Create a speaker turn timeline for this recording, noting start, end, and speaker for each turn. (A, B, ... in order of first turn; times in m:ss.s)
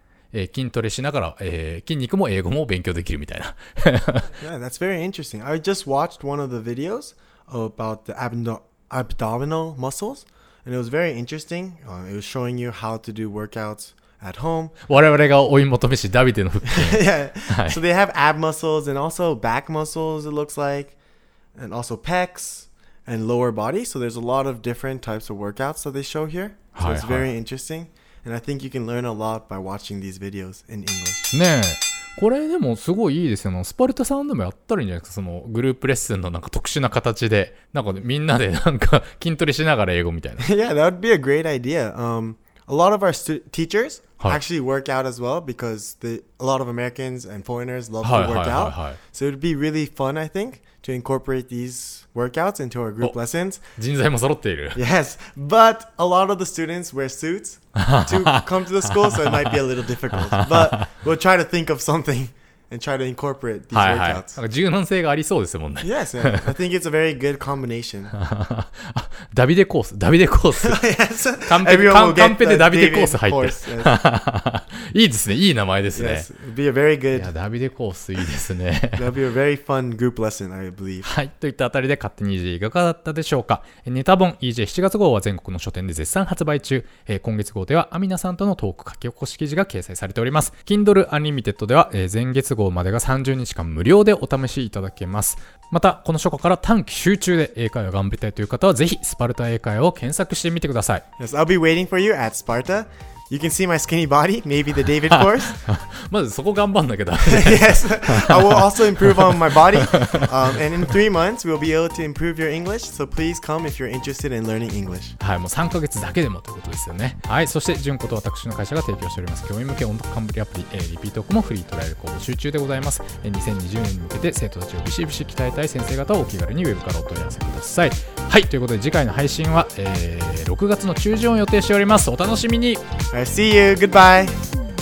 0:00.3-0:04.3 A
0:04.4-0:14.8 B
0:14.8-0:17.8 A
0:16.6-0:21.0 B
0:21.6-0:31.3 B
0:26.7-0:27.3 A
0:31.3-0:40.5 A
0:40.4-0:53.6 B
0:48.0-0:49.0 A
0:53.8-0:54.8 A
0:54.7-1:04.4 B
0:57.8-0:59.6 A
1:00.1-1:00.9 A
1:03.7-1:06.5 A
1:05.8-1:08.1 B
1:08.1-1:10.8 A
1:10.6-1:13.9 B
1:11.4-1:16.3 A
1:15.9-1:17.3 B
1:17.1-1:19.1 A
1:19.0-1:21.1 B
1:21.0-1:41.0 A
1:41.2-1:45.6 B
1:45.1-1:50.3 A
1:47.2-1:55.2 B
1:55.2-2:12.8 A
2:13.1-2:14.4 B